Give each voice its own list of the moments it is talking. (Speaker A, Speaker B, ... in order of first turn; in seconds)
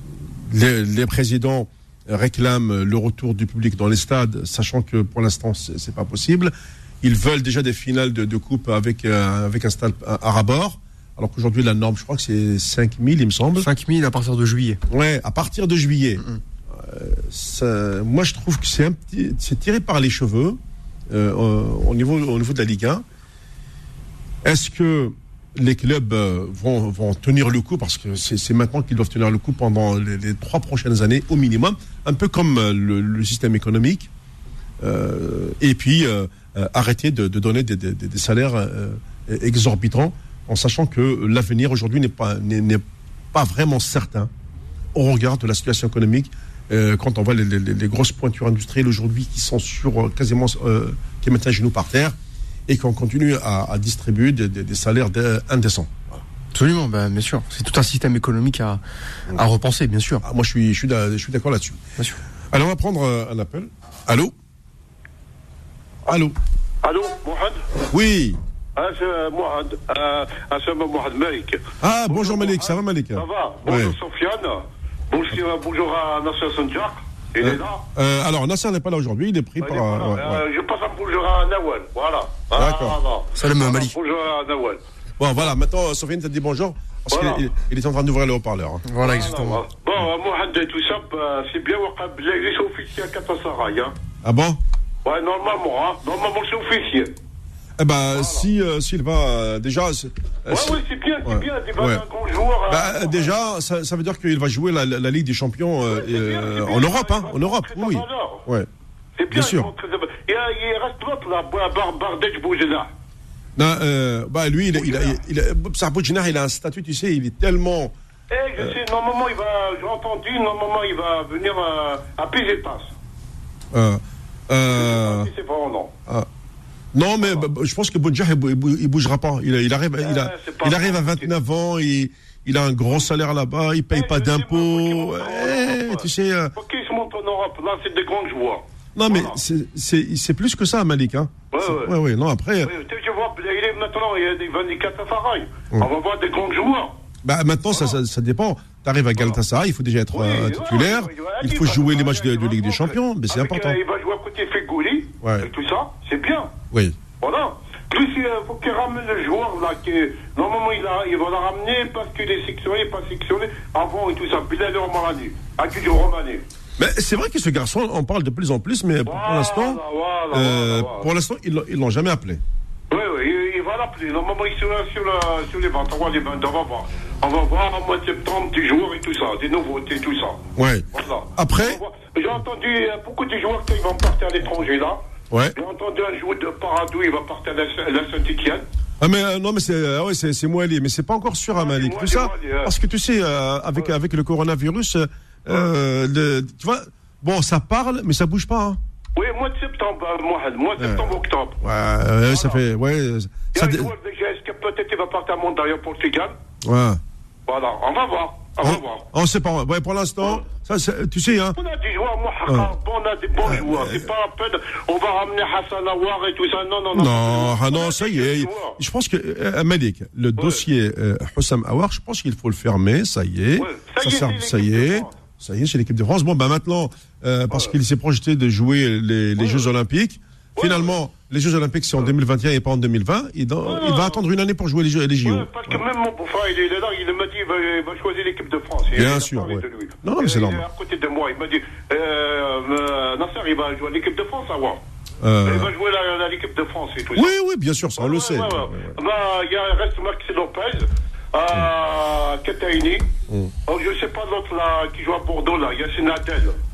Speaker A: 0.4-13.7, 14.9-23.0, 24.4-34.1, 34.8-44.3, 44.9-52.1, 52.7-56.2, 60.2-61.8, 62.5-64.3, 66.0-66.3, 67.9-68.4, 71.8-74.0, 77.4-80.4, 82.5-83.0, 85.2-88.8, 94.2-94.6, 97.8-102.0, 102.7-108.7, 109.3-109.7, 113.5-117.9, 123.7-125.3, 126.9-136.5, 138.9-142.7, 147.2-153.8, 155.2-155.5, 166.8-169.8, 170.3-172.4, 180.6-181.8, 189.0-198.8, 200.8-203.9, 206.6-207.0, 208.6-211.6, 212.5-212.7, 213.4-214.1, 216.9-235.8, 238.9-240.6, 245.2-245.7, 247.1-248.9, 253.3-253.5
Speaker B: 13.6-14.8, 56.5-60.2, 83.3-83.9, 88.9-89.6
Speaker C: 66.8-67.7, 68.8-77.8, 79.6-84.8, 87.1-87.4, 89.0-94.0, 95.0-97.1, 98.2-98.4, 100.5-103.3, 105.9-108.4, 109.2-112.9, 114.8-115.1, 118.3-122.9, 124.7-125.9, 130.0-131.3, 133.9-139.4, 141.5-141.9, 142.6-146.9, 150.1-156.5, 157.2-166.4, 169.1-171.1, 172.9-180.4, 180.9-185.0, 185.5-188.6, 191.6-192.7, 199.2-201.6, 202.3-202.6, 203.5-206.3, 207.5-209.0, 211.5-218.8, 223.6-225.1, 229.4-229.6, 230.6-230.9, 233.7-234.2, 235.2-244.8, 245.4-247.3, 248.0-253.1, 253.7-256.6